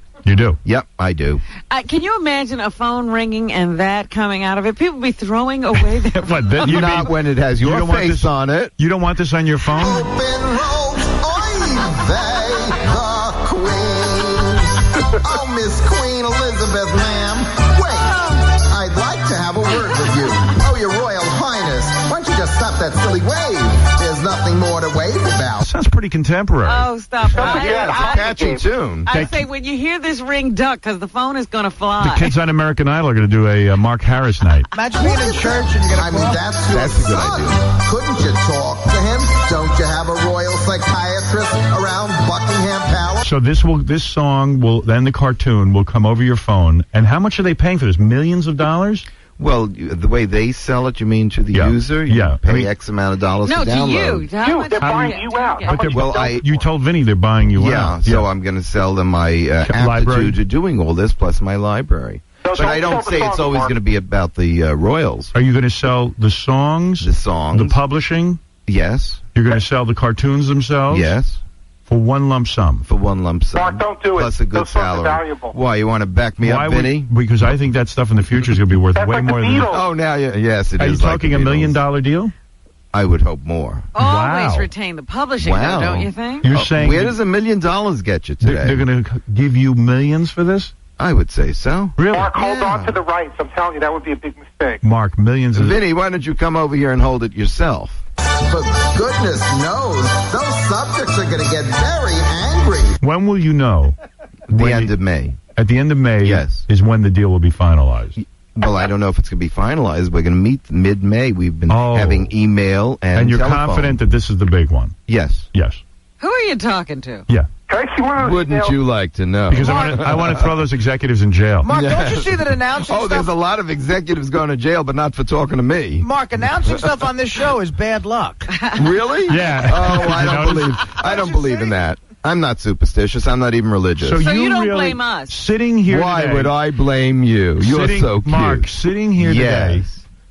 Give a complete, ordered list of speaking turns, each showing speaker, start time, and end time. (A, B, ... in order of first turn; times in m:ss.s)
0:00.2-0:00.6 A
0:00.6-0:01.4 B
0:01.7-0:06.6 C
0:06.0-0:10.1 A
0:06.6-0:08.7 B
0:09.8-0:14.7 D
0:15.2-0:25.7 D
0:17.1-0:18.1 B
0:18.1-0:18.4 C
0:25.6-0:26.9 A
0:26.6-0:28.3 C
0:27.3-0:28.6 E
0:27.4-0:29.1 B
0:29.0-0:32.3 C
0:29.1-0:29.4 A
0:32.0-0:34.7 A
0:34.7-0:36.5 F
0:35.0-0:43.2 D
0:36.6-0:37.7 B
0:43.2-0:49.0 A
0:49.4-0:54.3 B
0:51.5-0:52.7 A
0:53.4-0:55.8 C
0:54.4-0:56.7 E
0:54.8-0:58.3 A
0:55.9-0:56.4 B
0:57.5-1:05.3 B
0:59.6-1:00.4 A
1:02.4-1:03.7 E
1:05.3-1:08.4 A
1:07.0-1:07.8 B
1:08.6-1:09.2 B
1:09.3-1:11.1 A
1:10.9-1:11.4 B
1:11.9-1:12.9 A
1:12.8-1:17.1 B
1:13.5-1:15.5 E
1:16.4-1:19.7 A
1:18.9-1:19.8 E
1:19.7-1:21.8 B
1:20.8-1:22.3 A
1:22.9-1:23.9 B
1:23.9-1:26.4 C
1:24.0-1:24.7 A
1:25.4-1:28.8 B
1:26.4-1:27.2 A
1:28.4-1:30.7 A
1:31.0-1:33.0 B
1:32.0-1:32.3 A
1:32.1-1:34.8 E
1:34.8-1:35.8 A
1:35.5-1:38.0 B
1:38.5-1:42.9 D
1:43.0-1:44.0 A
1:44.5-1:44.9 A
1:44.5-1:45.4 B
1:45.6-1:48.2 A
1:46.2-1:46.6 B
1:48.2-1:54.0 B
1:51.7-1:52.3 A
1:53.1-1:54.9 A
1:55.1-1:55.5 B
1:55.5-1:55.8 A
1:56.2-1:57.3 C
1:57.7-1:58.8 E
1:58.2-2:00.7 B
1:59.5-2:01.7 A
2:01.6-2:03.3 F
2:01.7-2:06.9 B
2:06.0-2:08.6 F
2:08.5-2:08.8 C
2:08.7-2:14.2 B
2:09.3-2:10.8 A
2:10.9-2:11.9 F
2:14.0-2:16.6 A
2:14.2-2:15.4 C
2:15.9-2:20.0 B
2:17.6-2:19.8 A